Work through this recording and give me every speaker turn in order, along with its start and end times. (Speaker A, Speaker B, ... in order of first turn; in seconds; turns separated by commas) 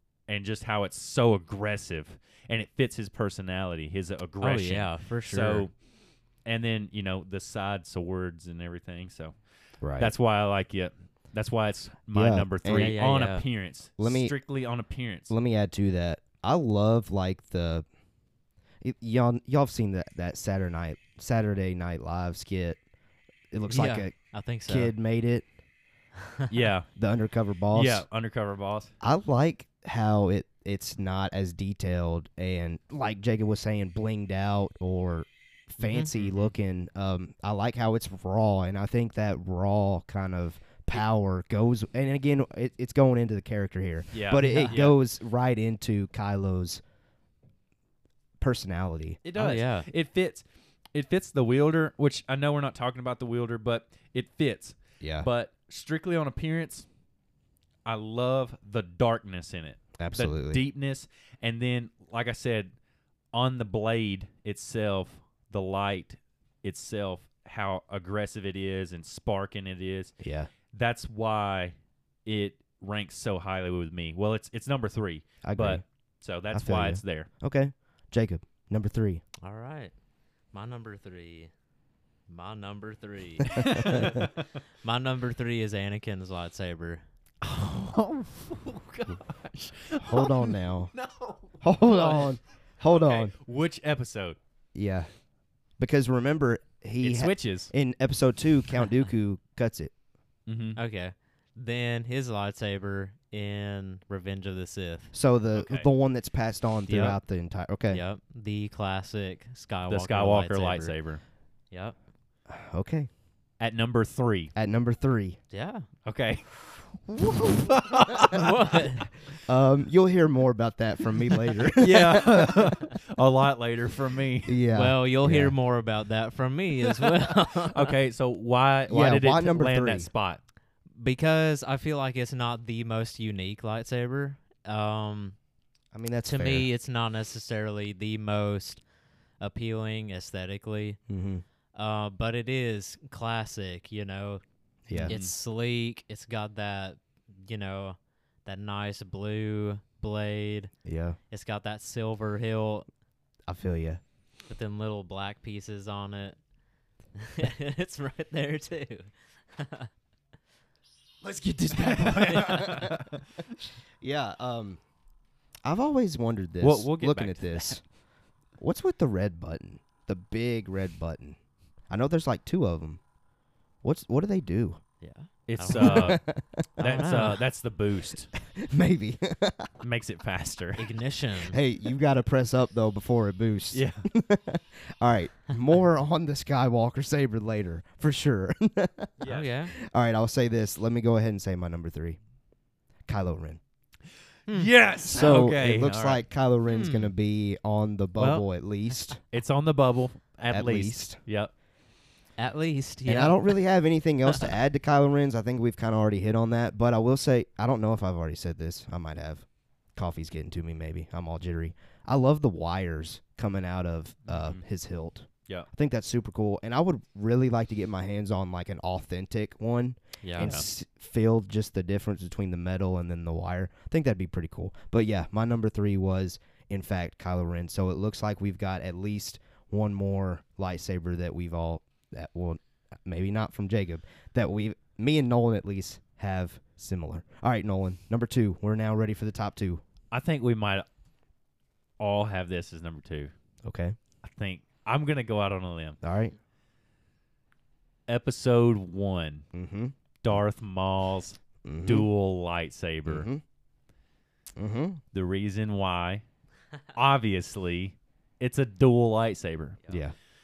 Speaker A: 0.3-5.7, Speaker B: 4.4-5.7, Speaker A: 6.5-9.3, Speaker C: 9.8-10.1, Speaker A: 10.0-15.3, Speaker C: 12.1-13.0, Speaker B: 12.7-13.4, Speaker C: 14.0-14.3, Speaker C: 15.3-17.9, Speaker C: 18.8-22.8, Speaker C: 23.5-24.1, Speaker B: 23.7-24.9, Speaker C: 24.7-25.5, Speaker A: 26.5-26.9, Speaker C: 27.0-28.1, Speaker A: 27.7-28.9, Speaker C: 29.0-46.8, Speaker B: 35.8-36.1, Speaker A: 36.2-36.4, Speaker A: 44.1-45.0, Speaker B: 44.4-44.8, Speaker C: 48.4-49.2, Speaker A: 49.2-50.4, Speaker B: 49.4-49.9, Speaker A: 51.0-56.9, Speaker C: 55.0-55.3, Speaker A: 57.9-62.7, Speaker C: 60.0-60.6, Speaker A: 63.3-70.2, Speaker C: 70.2-70.5, Speaker A: 70.7-71.7, Speaker A: 72.3-77.3, Speaker C: 75.4-75.8, Speaker C: 76.5-79.2, Speaker B: 79.4-79.9, Speaker B: 80.5-81.5, Speaker B: 82.3-87.0, Speaker A: 83.5-84.4, Speaker C: 83.5-84.3, Speaker A: 87.4-92.3, Speaker C: 90.0-90.9, Speaker C: 91.6-93.3, Speaker B: 92.0-92.2, Speaker A: 92.8-94.4, Speaker C: 94.8-95.1, Speaker C: 95.8-99.9, Speaker A: 97.0-97.7, Speaker A: 100.5-100.8, Speaker B: 100.8-105.1, Speaker C: 105.1-108.0, Speaker A: 105.5-105.9, Speaker A: 106.9-107.2, Speaker B: 107.9-111.0, Speaker A: 109.9-111.2, Speaker C: 112.5-113.1, Speaker A: 113.6-114.5, Speaker C: 114.5-115.4, Speaker B: 115.5-115.9, Speaker A: 116.1-118.7, Speaker B: 118.3-119.1, Speaker C: 119.5-122.8, Speaker A: 121.4-124.6, Speaker C: 124.5-125.5, Speaker B: 124.7-128.0, Speaker A: 127.4-130.4, Speaker C: 128.9-130.1, Speaker B: 131.0-135.4, Speaker C: 135.9-136.7, Speaker B: 136.3-138.8, Speaker B: 139.4-141.0, Speaker C: 141.1-141.4, Speaker B: 141.8-144.4, Speaker C: 144.9-145.2, Speaker A: 144.9-145.3, Speaker B: 145.0-150.7, Speaker C: 150.8-151.2, Speaker B: 151.3-152.9, Speaker C: 153.5-154.0, Speaker B: 154.5-156.4, Speaker B: 157.2-159.9, Speaker A: 161.2-163.2, Speaker C: 161.6-163.2, Speaker B: 162.0-162.8, Speaker C: 164.0-164.8, Speaker C: 165.7-167.8, Speaker A: 166.6-167.8, Speaker C: 168.6-171.4, Speaker C: 171.9-173.0, Speaker C: 173.8-174.8, Speaker B: 175.0-176.2, Speaker A: 175.5-176.2, Speaker C: 175.7-176.6, Speaker B: 176.8-177.4, Speaker A: 176.8-178.3, Speaker C: 178.4-179.7, Speaker A: 179.8-180.9, Speaker B: 180.8-181.6, Speaker C: 181.5-189.1, Speaker A: 183.7-184.0, Speaker A: 189.2-189.5, Speaker B: 189.2-189.7, Speaker C: 189.7-192.2, Speaker C: 193.1-193.6, Speaker A: 194.5-196.2, Speaker C: 195.0-199.2, Speaker B: 196.7-197.1, Speaker A: 199.3-201.5, Speaker C: 200.5-201.2, Speaker B: 202.4-203.5, Speaker C: 203.1-239.8, Speaker A: 214.3-214.6, Speaker B: 220.2-220.6, Speaker A: 220.4-220.7, Speaker A: 240.1-240.9, Speaker A: 242.0-243.3, Speaker C: 243.6-244.0, Speaker A: 244.2-246.0, Speaker C: 246.0-246.4, Speaker A: 248.1-249.4, Speaker C: 249.5-249.9, Speaker A: 250.2-253.3, Speaker C: 251.7-252.1, Speaker C: 253.1-253.4, Speaker C: 254.6-255.0, Speaker A: 255.1-256.2, Speaker A: 256.9-259.8, Speaker C: 259.9-260.1